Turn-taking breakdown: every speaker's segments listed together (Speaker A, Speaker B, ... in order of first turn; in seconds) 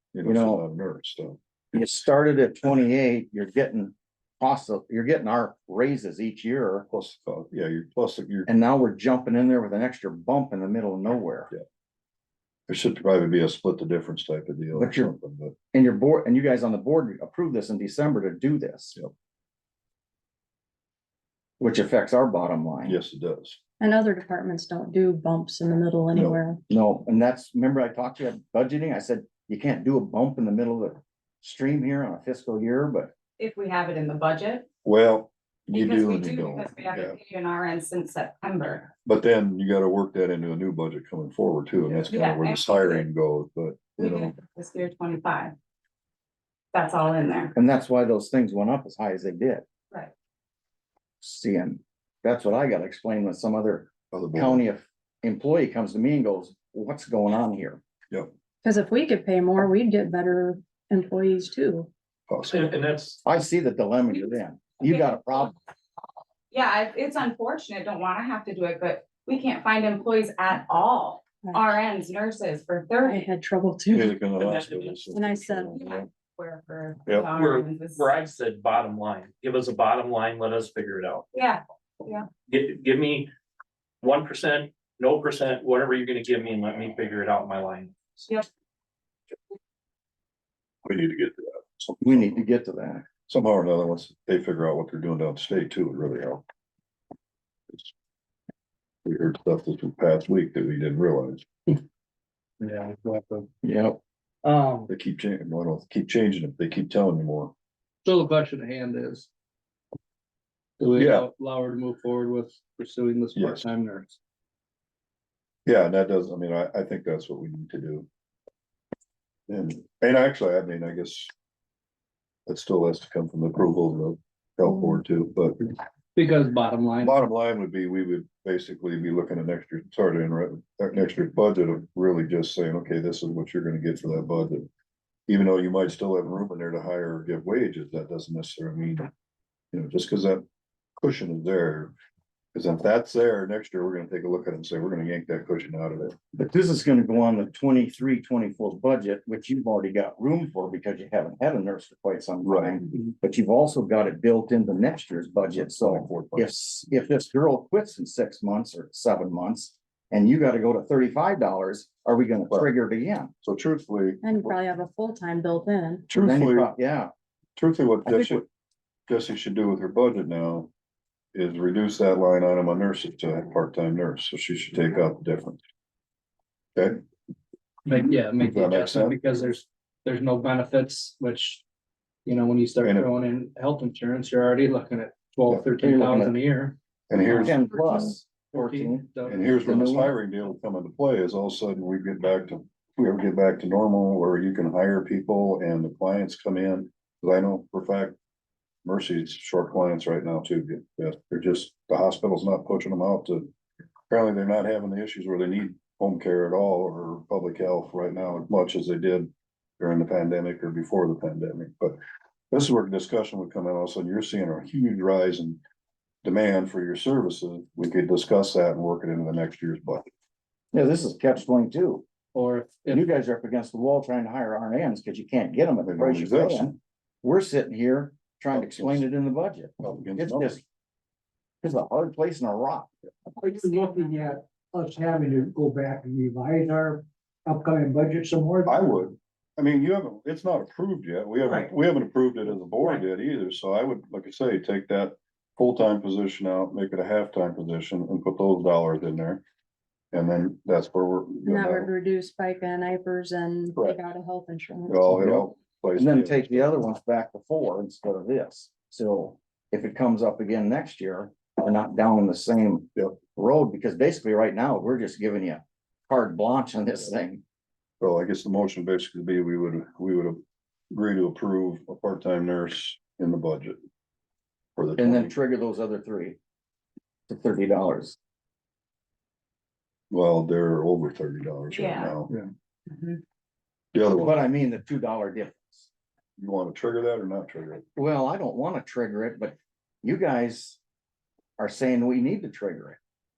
Speaker A: 0.1-1.4, 6.9-8.5, 12.7-15.6, 22.9-23.6, 26.1-26.4, 34.8-37.2, 39.0-44.3, 54.1-54.6, 62.3-62.8, 73.9-76.0, 90.8-92.5, 93.3-96.4, 99.0-101.5, 104.9-107.5, 111.0-111.3, 113.4-113.7, 115.7-118.1, 119.5-121.3, 122.5-125.6, 127.0-134.7, 135.3-139.1, 139.7-140.4, 141.0-141.9, 142.5-146.2, 152.4-152.8, 155.5-156.5, 163.4-164.5, 166.1-166.7, 167.6-168.4, 169.1-170.7, 171.3-175.6, 176.8-177.0, 178.4-179.2, 182.8-183.1, 187.1-187.6, 189.3-198.2, 198.8-203.5, 204.1-212.0, 212.5-215.6, 216.2-220.1, 225.8-226.8, 228.5-229.1, 229.8-230.6, 238.7-249.4, 250.1-251.9, 254.9-256.9, 268.0-270.4, 270.9-273.8, 274.8-275.3, 280.1-282.3, 283.9-284.4, 286.4-287.8
Speaker B: 0.2-0.6, 1.7-6.8, 8.5-11.5, 14.7-15.1, 15.7-18.9, 21.6-22.9, 26.7-33.1, 47.5-49.6, 51.2-57.8, 63.2-65.5, 92.0-93.0, 103.6-104.0, 146.3-163.3, 166.1-167.1, 168.1-168.4, 185.8-186.3, 187.2-189.1, 189.7-190.1, 220.7-222.0, 222.9-230.6, 231.6-232.9, 256.0-267.4, 275.0-276.4, 277.3-278.2, 284.1-285.9, 288.0-290.8, 291.6-293.0
Speaker C: 23.8-26.6, 58.6-61.9, 71.4-71.7, 73.0-74.2, 75.1-75.9, 164.2-166.0, 251.4-255.4
Speaker D: 33.4-34.7, 35.7-38.9, 42.1-43.0, 44.0-45.5, 46.7-47.5, 64.8-65.5, 66.5-73.2, 75.7-78.2, 81.3-82.3, 233.4-234.3, 241.4-241.7, 281.7-282.1, 282.9-283.2
Speaker E: 62.5-63.2, 74.3-75.1, 77.3-81.3, 82.5-83.3, 84.0-88.0
Speaker F: 102.6-103.5, 104.4-104.9, 108.0-109.3, 110.8-114.2, 126.2-127.2, 177.8-181.6, 182.2-189.8, 222.3-223.1
Speaker G: 233.4-238.8